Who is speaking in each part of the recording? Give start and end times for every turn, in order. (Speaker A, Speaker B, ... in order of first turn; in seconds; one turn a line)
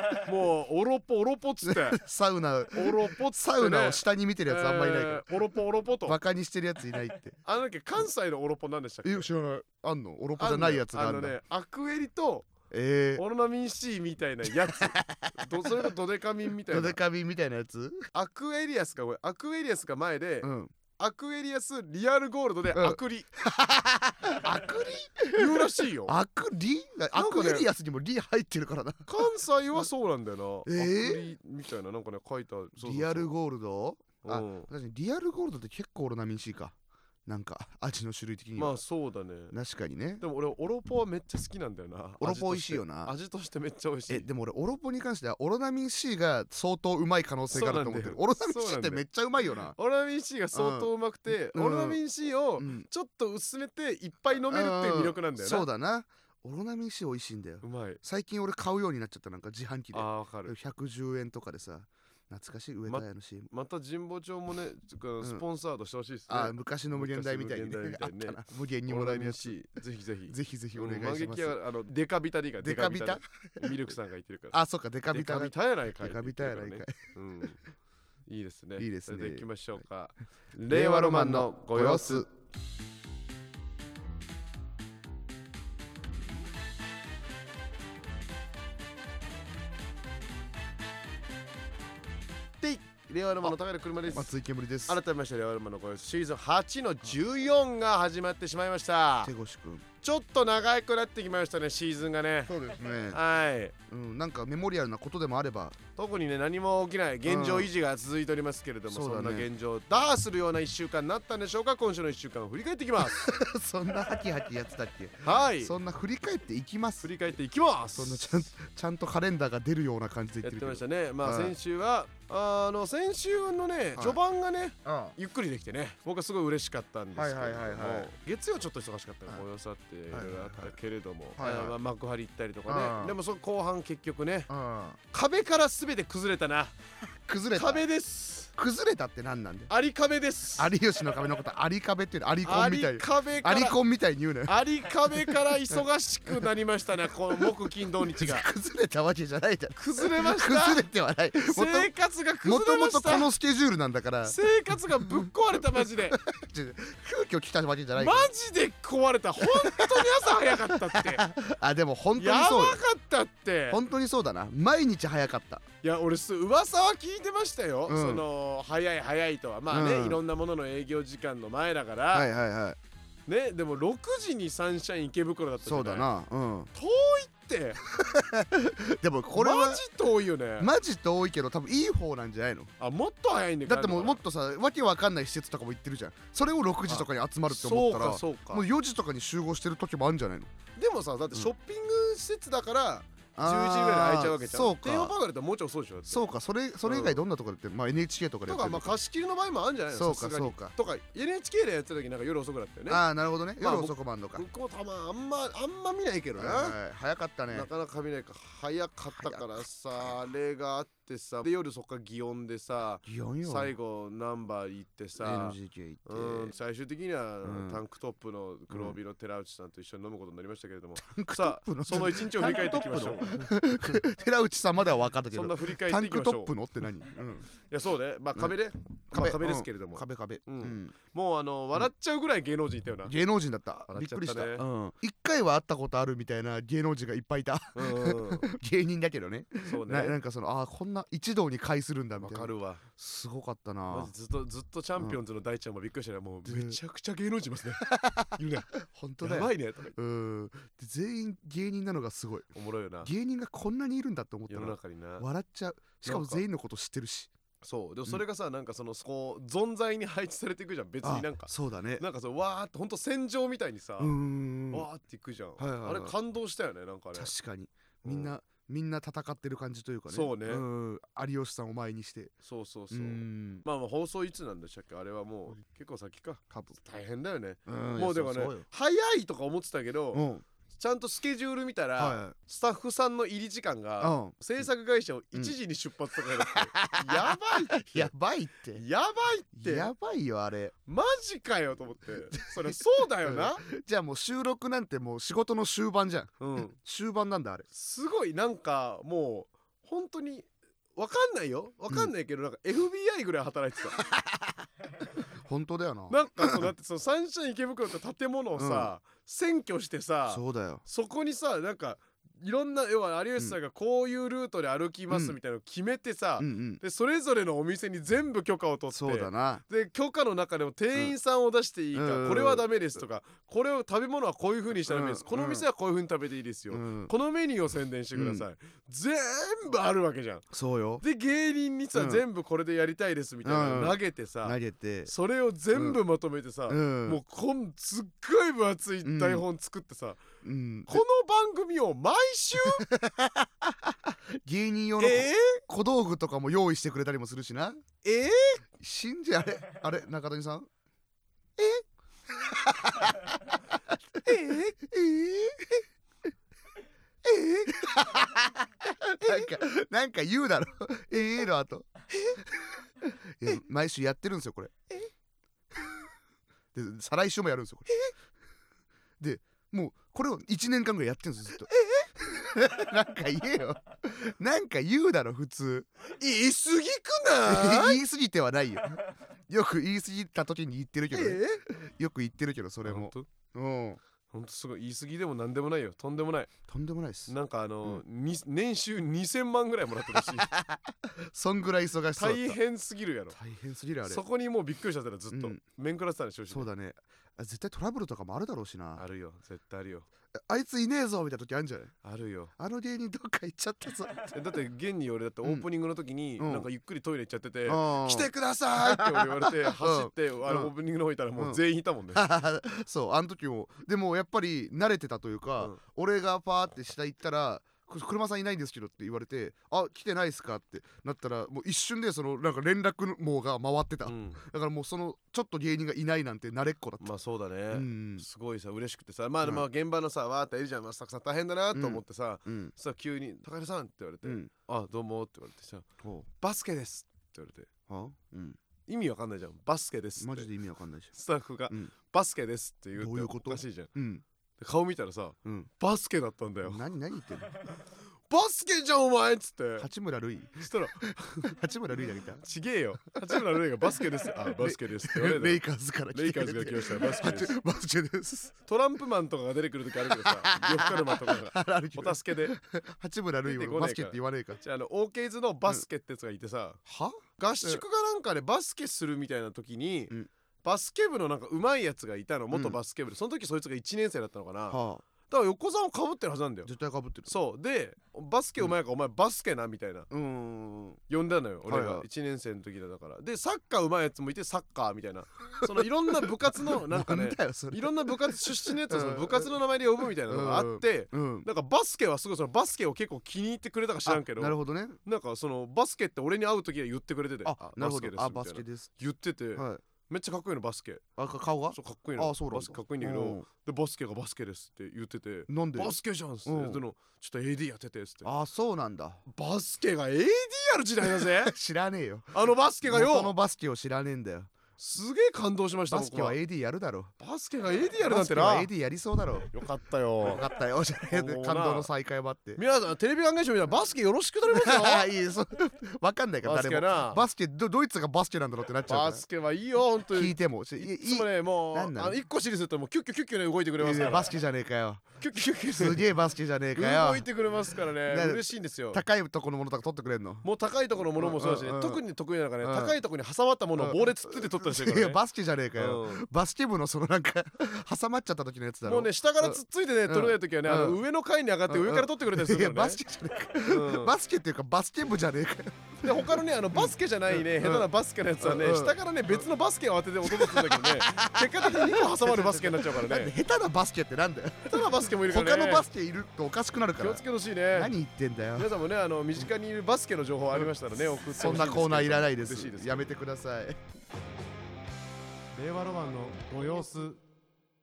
Speaker A: 0.1-2.0
Speaker B: 1.7-5.2
Speaker A: 2.7-6.2
Speaker B: 6.0-7.4
Speaker A: 7.5-9.3
Speaker B: 9.0-11.3
Speaker A: 10.4-12.5
Speaker B: 12.7-13.2
Speaker A: 13.2-17.0
Speaker B: 14.5-15.9
Speaker B: 16.7-18.1
Speaker A: 18.1-23.3
Speaker B: 20.4-20.7
Speaker B: 22.7-29.1
Speaker A: 24.4-24.7
Speaker A: 25.3-26.2
Speaker A: 27.1-27.7
Speaker A: 29.1-33.3
Speaker B: 30.7-31.2
Speaker B: 32.8-38.8
Speaker A: 34.2-34.7
Speaker A: 38.6-39.6
Speaker B: 39.5-40.2
Speaker A: 40.2-44.3
Speaker B: 42.2-43.1
Speaker B: 44.1-49.8
Speaker A: 47.5-49.0
Speaker A: 49.8-55.7
Speaker B: 50.5-52.0
Speaker B: 52.6-52.9
Speaker B: 54.5-63.5
Speaker A: 57.6-58.0
Speaker A: 59.9-60.5
Speaker A: 62.9-74.6
Speaker B: 66.3-69.6
Speaker B: 70.3-71.6
Speaker B: 72.6-73.8
Speaker B: 74.5-77.0
Speaker A: 75.1-77.6
Speaker A: 78.3-82.3
Speaker B: 78.8-79.5
Speaker B: 80.7-82.3
Speaker A: 92.6-94.3
Speaker B: 93.4-95.0
Speaker A: 94.9-99.3
Speaker B: 99.2-99.9
Speaker A: 100.0-103.7
Speaker B: 102.5-103.2
Speaker B: 103.9-105.8
Speaker A: 106.0-113.3
Speaker B: 107.2-107.7
Speaker B: 108.9-109.5
Speaker B: 113.0-117.2
Speaker A: 115.2-115.7
Speaker A: 117.0-118.5
Speaker B: 118.0-121.6
Speaker A: 120.4-134.5
Speaker B: 124.8-125.2
Speaker B: 127.1-128.1
Speaker B: 130.1-130.7
Speaker B: 131.4-131.8
Speaker B: 132.7-133.2
Speaker B: 134.5-135.0
Speaker A: 135.1-136.8
Speaker B: 137.3-137.8
Speaker A: 137.5-138.5
Speaker B: 138.5-139.7
Speaker A: 139.7-140.8
Speaker B: 140.6-146.5
Speaker A: 142.4-143.8
Speaker A: 144.5-148.5
Speaker B: 148.1-151.9
Speaker A: 149.8-150.9
Speaker A: 151.4-153.3
Speaker B: 152.4-158.3
Speaker A: 154.2-156.2
Speaker A: 158.0-161.3
Speaker B: 159.4-162.8
Speaker A: 162.2-163.8
Speaker B: 163.7-165.6
Speaker A: 165.8-172.3
Speaker B: 167.9-168.2
Speaker B: 169.7-170.2
Speaker B: 172.1-172.8
Speaker A: 173.3-176.1
Speaker B: 175.6-176.7
Speaker A: 176.7-177.8
Speaker B: 177.9-179.8
Speaker A: 179.3-180.7
Speaker B: 180.6-182.7
Speaker A: 182.8-184.2
Speaker B: 183.7-190.5
Speaker A: 186.9-188.7
Speaker A: 190.8-196.3
Speaker B: 193.4-195.2
Speaker B: 196.1-198.9
Speaker A: 196.8-197.2
Speaker A: 198.5-203.1
Speaker B: 199.9-200.7
Speaker B: 202.9-204.4
Speaker A: 203.6-206.8
Speaker B: 206.4-207.7
Speaker A: 207.5-224.0
Speaker B: 209.2-209.6
Speaker B: 213.1-213.7
Speaker B: 215.2-216.5
Speaker B: 217.4-217.8
Speaker B: 218.7-219.0
Speaker B: 221.0-227.5
Speaker A: 225.3-226.5
Speaker A: 227.6-233.2
Speaker B: 229.1-230.9
Speaker B: 233.1-244.1
Speaker A: 233.9-234.7
Speaker A: 237.8-238.5
Speaker A: 239.7-240.2
Speaker A: 242.2-242.8
Speaker A: 243.9-250.0
Speaker B: 246.4-246.8
Speaker B: 247.8-252.5
Speaker A: 252.5-253.1
Speaker B: 253.0-257.3
Speaker A: 254.5-255.3
Speaker A: 256.0-256.4
Speaker A: 257.6-264.1
Speaker B: 261.0-262.0
Speaker B: 264.0-264.9
Speaker A: 264.7-267.3
Speaker B: 265.6-266.1
Speaker B: 267.1-272.3
Speaker A: 268.0-268.4
Speaker A: 270.1-270.6
Speaker A: 272.4-288.1
Speaker B: 272.9-273.6
Speaker B: 277.7-278.7
Speaker B: 280.1-280.4
Speaker B: 282.0-282.3
Speaker B: 284.0-284.4
Speaker B: 286.4-288.8
Speaker A: 288.8-289.9
Speaker B: 289.6-290.8
Speaker A: 290.9-293.6
Speaker B: 292.5-297.7
Speaker A: 296.4-296.8
Speaker A: 297.7-304.0
Speaker B: 304.0-304.5
Speaker B: 305.4-306.7
Speaker A: 306.1-330.5
Speaker B: 308.6-308.9
Speaker B: 310.3-310.8
Speaker B: 315.1-315.4
Speaker B: 316.4-316.8
Speaker B: 318.9-319.6
Speaker B: 321.9-322.7
Speaker B: 324.9-325.7
Speaker B: 326.7-327.1
Speaker B: 328.1-328.4
Speaker B: 330.5-331.0
Speaker A: 331.0-340.2
Speaker B: 331.9-332.2
Speaker B: 333.4-335.1
Speaker B: 335.7-336.0
Speaker B: 336.7-337.2
Speaker B: 339.0-339.4
Speaker B: 340.4-341.0
Speaker A: 340.9-342.9
Speaker B: 342.6-347.8
Speaker A: 345.0-345.6
Speaker A: 348.0-348.6
Speaker B: 348.8-350.7
Speaker B: 351.6-355.9
Speaker A: 354.2-354.7
Speaker B: 357.2-364.8
Speaker B: 365.7-366.1
Speaker B: 366.7-368.0
Speaker B: 369.2-375.9
Speaker A: 371.7-372.1
Speaker A: 376.2-378.0
Speaker B: 377.4-384.0
Speaker A: 381.1-381.6
Speaker A: 382.9-383.3
Speaker A: 384.3-386.5
Speaker B: 386.7-387.3
Speaker A: 387.3-390.5
Speaker B: 390.2-392.6
Speaker A: 392.2-393.4
Speaker B: 393.3-394.2
Speaker A: 394.1-396.7
Speaker B: 395.3-395.6
Speaker B: 396.5-399.0
Speaker A: 399.0-400.1
Speaker B: 400.4-401.9
Speaker A: 402.0-402.5
Speaker B: 402.6-404.4
Speaker A: 404.3-412.2
Speaker B: 406.4-406.7
Speaker B: 407.7-410.7
Speaker B: 412.1-427.1
Speaker A: 424.1-424.4
Speaker A: 427.0-435.9
Speaker B: 427.7-428.2
Speaker B: 431.7-432.7
Speaker B: 434.2-434.5
Speaker B: 436.0-436.3
Speaker A: 436.4-437.7
Speaker B: 437.9-438.6
Speaker A: 438.9-440.5
Speaker B: 440.2-441.1
Speaker A: 441.1-443.9
Speaker B: 443.0-444.2
Speaker A: 444.6-446.8
Speaker B: 445.4-445.7
Speaker B: 446.6-447.5
Speaker A: 448.3-449.9
Speaker B: 449.8-452.4
Speaker A: 450.6-451.1
Speaker A: 452.4-457.6
Speaker B: 454.5-458.6
Speaker A: 458.7-462.6
Speaker B: 460.1-464.6
Speaker A: 463.5-466.8
Speaker B: 466.9-467.8
Speaker A: 467.4-476.7
Speaker B: 472.5-472.8
Speaker B: 474.7-475.0
Speaker B: 476.7-477.3
Speaker A: 477.3-480.1
Speaker B: 480.1-481.0
Speaker A: 481.1-501.1
Speaker B: 481.7-482.1
Speaker B: 485.6-489.6
Speaker B: 490.3-491.5
Speaker B: 494.1-495.0
Speaker B: 497.4-498.9
Speaker B: 499.6-499.8
Speaker B: 501.2-503.5
Speaker A: 501.7-508.3
Speaker B: 505.5-506.8
Speaker B: 508.2-509.2
Speaker A: 509.3-511.5
Speaker B: 511.1-514.5
Speaker A: 512.3-513.4
Speaker A: 514.8-516.4
Speaker B: 515.9-517.1
Speaker A: 517.2-518.7
Speaker B: 518.0-519.5
Speaker A: 519.5-520.5
Speaker B: 520.2-522.6
Speaker A: 521.1-521.9
Speaker A: 522.6-525.1
Speaker B: 524.5-529.2
Speaker A: 526.4-527.2
Speaker A: 528.9-534.3
Speaker B: 530.1-532.2
Speaker B: 533.8-535.2
Speaker A: 535.2-536.1
Speaker B: 535.7-537.3
Speaker A: 536.8-539.0
Speaker B: 538.0-540.5
Speaker A: 540.4-545.2
Speaker B: 541.1-542.0
Speaker B: 542.6-543.0
Speaker B: 543.8-551.0
Speaker A: 545.8-546.2
Speaker A: 548.9-553.0
Speaker B: 551.7-559.5
Speaker A: 553.7-554.1
Speaker A: 556.0-563.3
Speaker B: 560.2-568.7
Speaker A: 564.7-565.9
Speaker A: 567.0-568.0
Speaker A: 568.6-573.1
Speaker B: 571.2-573.8
Speaker A: 575.5-577.2